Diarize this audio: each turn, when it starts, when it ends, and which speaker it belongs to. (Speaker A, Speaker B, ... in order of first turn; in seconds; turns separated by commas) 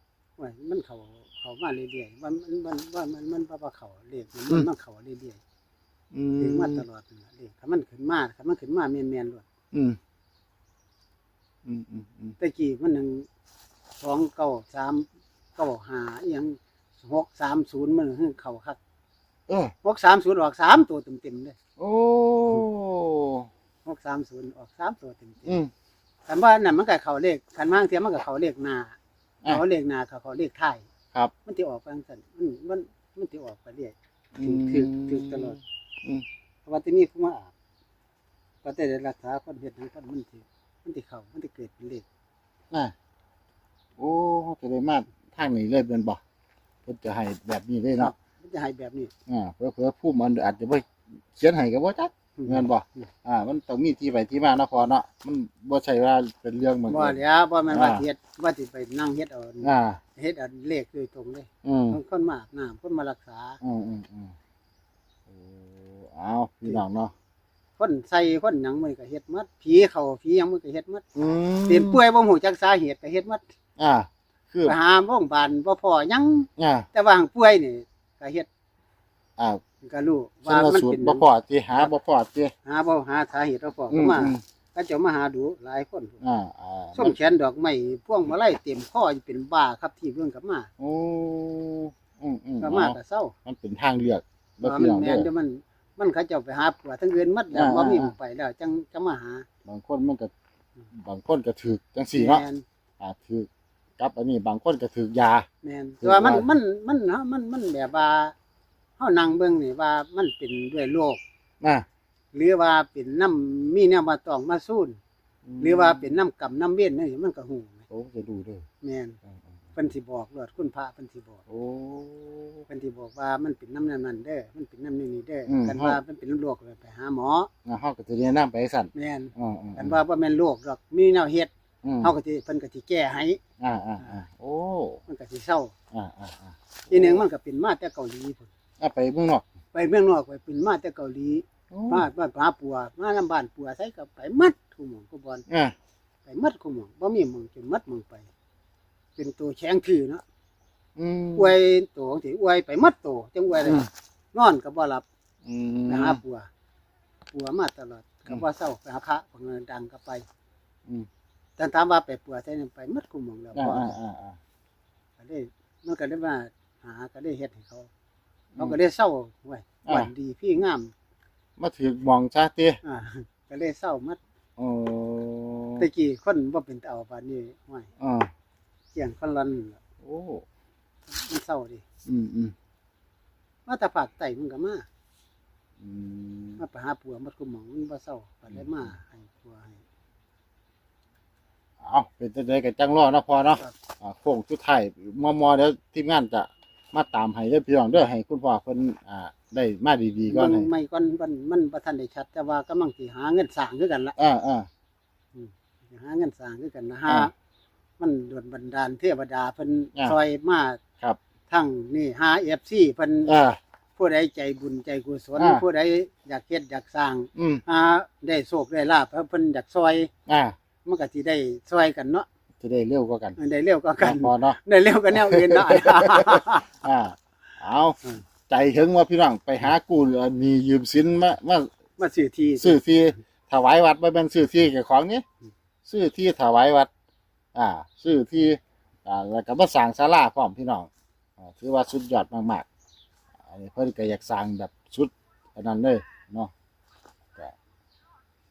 Speaker A: 0.4-5.4, Speaker B: 6.1-6.8, Speaker A: 6.4-9.4, Speaker B: 9.7-10.0, Speaker B: 11.7-12.4, Speaker A: 12.4-13.3, Speaker A: 14.0-18.8, Speaker B: 19.5-19.7, Speaker A: 19.8-21.6, Speaker B: 21.8-23.5, Speaker A: 23.9-25.6, Speaker B: 25.5-25.7, Speaker A: 26.3-30.9, Speaker A: 31.5-35.6, Speaker B: 34.4-36.2, Speaker A: 36.6-37.5, Speaker A: 38.6-42.1, Speaker B: 44.0-46.2, Speaker B: 46.9-48.1, Speaker A: 48.0-49.1, Speaker B: 49.3-58.0, Speaker A: 52.4-52.7, Speaker A: 56.9-63.6, Speaker B: 59.6-60.0, Speaker B: 61.6-62.0, Speaker B: 63.6-64.3, Speaker B: 65.3-67.1, Speaker A: 67.8-71.1, Speaker B: 71.2-72.0, Speaker A: 71.7-73.4, Speaker B: 73.8-74.8, Speaker A: 74.6-78.5, Speaker B: 76.6-76.9, Speaker A: 79.8-81.2, Speaker B: 80.5-82.5, Speaker A: 82.7-86.2, Speaker B: 83.9-84.4, Speaker B: 86.2-87.2, Speaker A: 87.0-90.7, Speaker B: 90.8-95.3, Speaker A: 92.6-93.3, Speaker A: 94.6-99.5, Speaker B: 97.5-98.2, Speaker B: 99.7-100.3, Speaker B: 100.9-102.4, Speaker A: 102.2-102.6, Speaker B: 103.0-105.5, Speaker A: 105.6-108.3, Speaker B: 106.0-106.5, Speaker A: 109.0-111.2, Speaker B: 111.6-111.9, Speaker A: 112.3-115.0, Speaker B: 115.5-116.2, Speaker A: 115.6-117.8, Speaker B: 117.9-118.7, Speaker A: 118.8-119.2, Speaker A: 119.8-121.4, Speaker B: 121.5-122.7, Speaker A: 122.7-127.5, Speaker B: 125.5-126.0, Speaker B: 127.7-130.0, Speaker A: 128.9-133.4, Speaker B: 131.8-132.1, Speaker B: 133.6-135.0, Speaker A: 135.1-135.7, Speaker B: 135.9-137.2, Speaker A: 136.9-138.5, Speaker B: 138.8-139.4, Speaker A: 139.7-145.4, Speaker B: 141.7-142.1, Speaker B: 145.5-145.7, Speaker A: 146.3-148.3, Speaker A: 149.2-150.2, Speaker B: 151.0-151.6, Speaker A: 151.4-155.0, Speaker B: 153.6-153.9, Speaker B: 155.5-156.2, Speaker A: 155.9-156.5, Speaker A: 157.3-160.2, Speaker A: 161.6-163.9, Speaker B: 163.5-164.4, Speaker A: 165.2-167.9, Speaker A: 168.6-170.9, Speaker B: 171.6-172.8, Speaker A: 172.8-174.2, Speaker B: 174.6-175.9, Speaker A: 175.8-177.9, Speaker B: 178.0-178.3, Speaker A: 178.9-179.8, Speaker B: 180.0-180.4, Speaker A: 181.1-181.8, Speaker B: 182.1-182.5, Speaker A: 183.7-184.9, Speaker B: 185.8-186.6, Speaker A: 186.6-189.8, Speaker B: 188.5-188.9, Speaker B: 191.8-200.7, Speaker A: 200.3-204.2, Speaker B: 204.2-204.7, Speaker A: 205.3-207.3, Speaker A: 208.0-210.8, Speaker A: 211.5-213.3, Speaker B: 213.3-213.6, Speaker A: 214.0-220.1, Speaker B: 215.4-215.6, Speaker B: 217.3-217.6, Speaker B: 220.3-220.6, Speaker A: 220.8-222.3, Speaker B: 222.6-223.4, Speaker A: 223.4-226.7, Speaker B: 224.0-224.6, Speaker B: 225.1-231.7, Speaker A: 232.0-233.2, Speaker B: 232.6-235.2, Speaker B: 235.8-236.9, Speaker B: 237.5-242.7, Speaker B: 243.4-246.5